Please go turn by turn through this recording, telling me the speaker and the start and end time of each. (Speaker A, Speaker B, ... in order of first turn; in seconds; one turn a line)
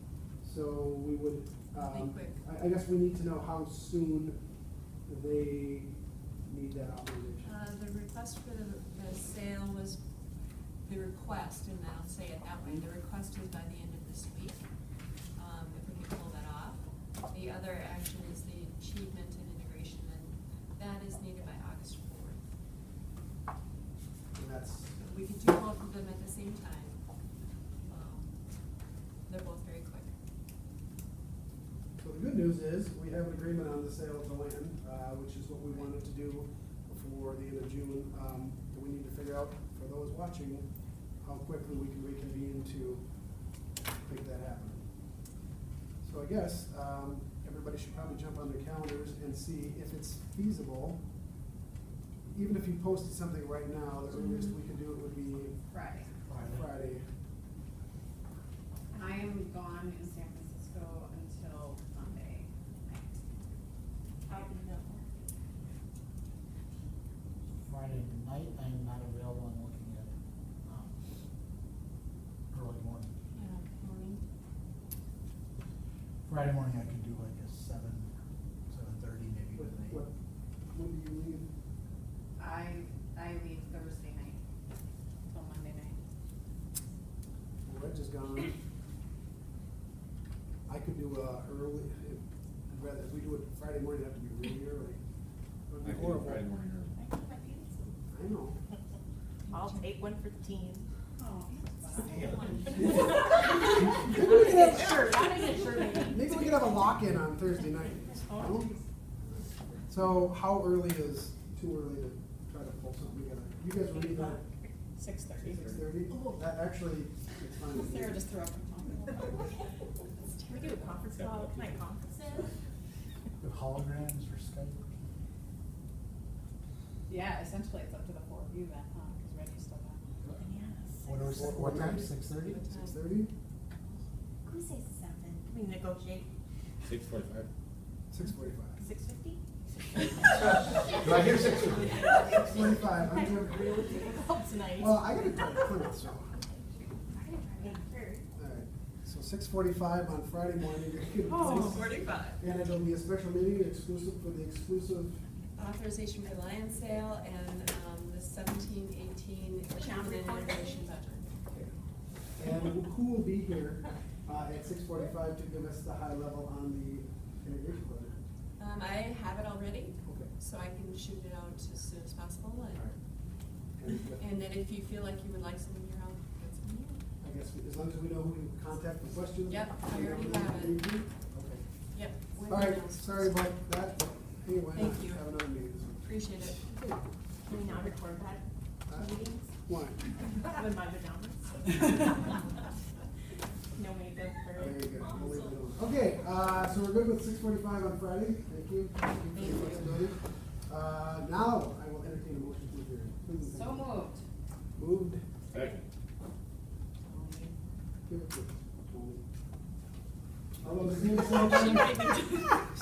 Speaker A: 0.4-4.4
Speaker B: 1.7-2.4
Speaker A: 5.0-5.9
Speaker A: 6.4-7.6
Speaker B: 7.4-10.0
Speaker B: 10.8-14.6
Speaker B: 15.3-22.4
Speaker A: 24.3-25.0
Speaker B: 25.0-27.0
Speaker B: 27.9-28.3
Speaker B: 29.3-30.1
Speaker A: 32.0-40.7
Speaker A: 41.2-43.0
Speaker A: 44.0-44.8
Speaker A: 46.0-51.0
Speaker A: 52.3-55.6
Speaker B: 54.2-54.5
Speaker C: 55.7-56.1
Speaker D: 56.2-56.7
Speaker A: 56.3-57.0
Speaker C: 58.9-63.4
Speaker E: 64.3-65.1
Speaker D: 67.6-70.9
Speaker D: 72.5-73.1
Speaker B: 73.3-74.2
Speaker D: 76.3-78.1
Speaker D: 78.7-80.0
Speaker A: 79.5-80.2
Speaker A: 80.7-81.5
Speaker C: 82.4-84.4
Speaker C: 85.3-86.0
Speaker A: 87.7-88.6
Speaker A: 90.7-95.0
Speaker A: 95.7-96.5
Speaker F: 95.8-97.0
Speaker E: 97.0-97.9
Speaker A: 98.1-98.6
Speaker B: 99.5-99.9
Speaker E: 99.5-100.9
Speaker C: 101.2-102.7
Speaker F: 102.0-103.0
Speaker E: 102.1-105.3
Speaker A: 102.8-103.1
Speaker A: 104.0-105.2
Speaker C: 104.4-106.1
Speaker E: 105.9-106.6
Speaker A: 106.1-108.7
Speaker E: 108.1-108.8
Speaker A: 109.9-114.4
Speaker E: 113.9-114.7
Speaker C: 115.0-115.5
Speaker F: 115.4-115.8
Speaker A: 115.4-118.2
Speaker C: 117.7-119.5
Speaker E: 120.4-122.5
Speaker F: 120.7-121.7
Speaker D: 123.4-125.2
Speaker C: 127.1-130.1
Speaker E: 130.2-131.5
Speaker D: 131.1-132.6
Speaker A: 131.3-133.3
Speaker B: 132.5-133.0
Speaker E: 134.4-136.3
Speaker F: 136.8-137.5
Speaker A: 138.1-138.8
Speaker E: 138.8-139.4
Speaker E: 139.9-141.4
Speaker F: 141.0-141.9
Speaker E: 142.0-142.5
Speaker A: 142.2-144.1
Speaker E: 143.0-145.1
Speaker A: 144.8-146.4
Speaker E: 147.1-148.2
Speaker A: 148.4-155.2
Speaker E: 151.3-151.8
Speaker B: 151.4-152.4
Speaker B: 155.6-161.3
Speaker E: 159.7-160.9
Speaker A: 162.4-168.2
Speaker B: 168.6-172.9
Speaker A: 170.1-170.3
Speaker A: 173.8-174.3
Speaker B: 174.2-177.0
Speaker A: 177.2-181.6
Speaker B: 179.5-180.9
Speaker B: 181.9-183.5
Speaker A: 182.5-187.0
Speaker B: 184.7-185.3
Speaker B: 186.0-186.7
Speaker E: 187.5-189.5
Speaker A: 188.9-190.1
Speaker E: 190.4-192.5
Speaker E: 193.8-195.3
Speaker A: 194.5-203.9
Speaker C: 203.5-204.2
Speaker A: 204.8-205.2
Speaker F: 205.5-205.9
Speaker C: 207.0-207.6
Speaker A: 208.1-209.2
Speaker A: 210.6-212.3
Speaker B: 211.0-212.7